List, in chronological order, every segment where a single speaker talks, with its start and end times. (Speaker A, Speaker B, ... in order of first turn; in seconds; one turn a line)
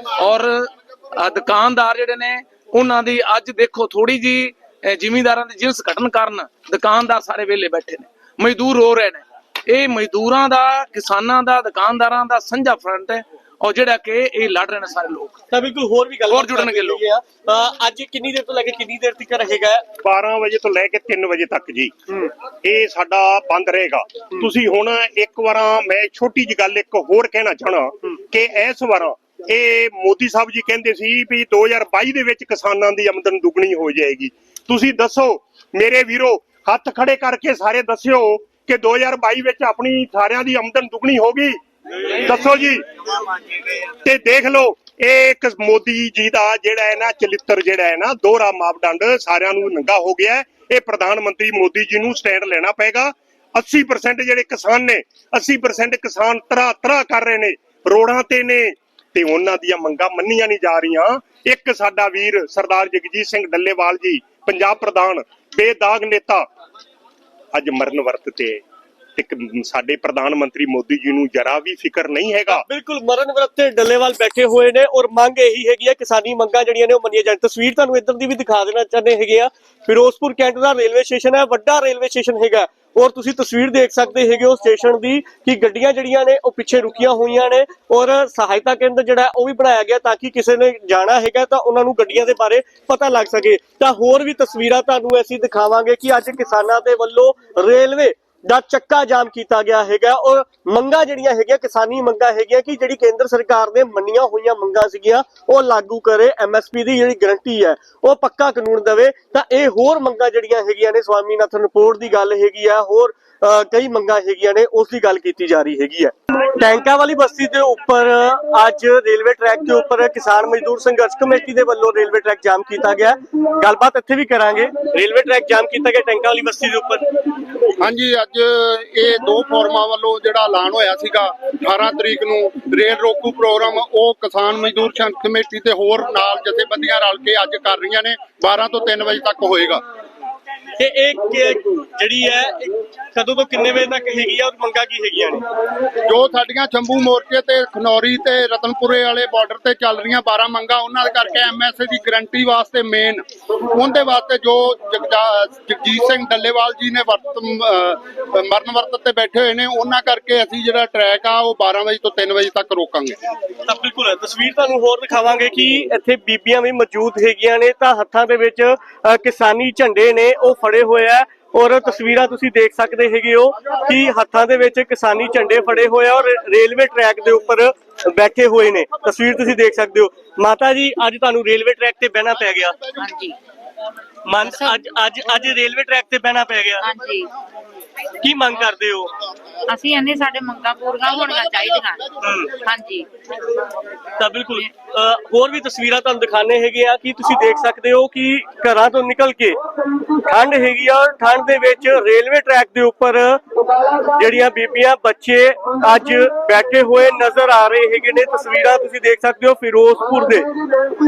Speaker A: 0.2-15.3
Speaker B: 15.5-19.8
Speaker A: 16.3-17.0
Speaker C: 20.0-21.9
Speaker C: 22.6-42.8
Speaker C: 43.9-66.5
Speaker C: 67.5-68.6
Speaker C: 69.2-72.6
Speaker B: 72.5-127.0
Speaker D: 127.8-139.8
Speaker B: 140.8-145.4
Speaker D: 146.1-163.2
Speaker B: 163.7-182.8
Speaker E: 183.0-183.3
Speaker B: 184.2-186.8
Speaker E: 186.8-187.2
Speaker B: 188.2-189.1
Speaker E: 189.7-192.0
Speaker B: 192.2-192.5
Speaker E: 192.7-193.0
Speaker B: 194.2-199.6
Speaker B: 200.2-210.5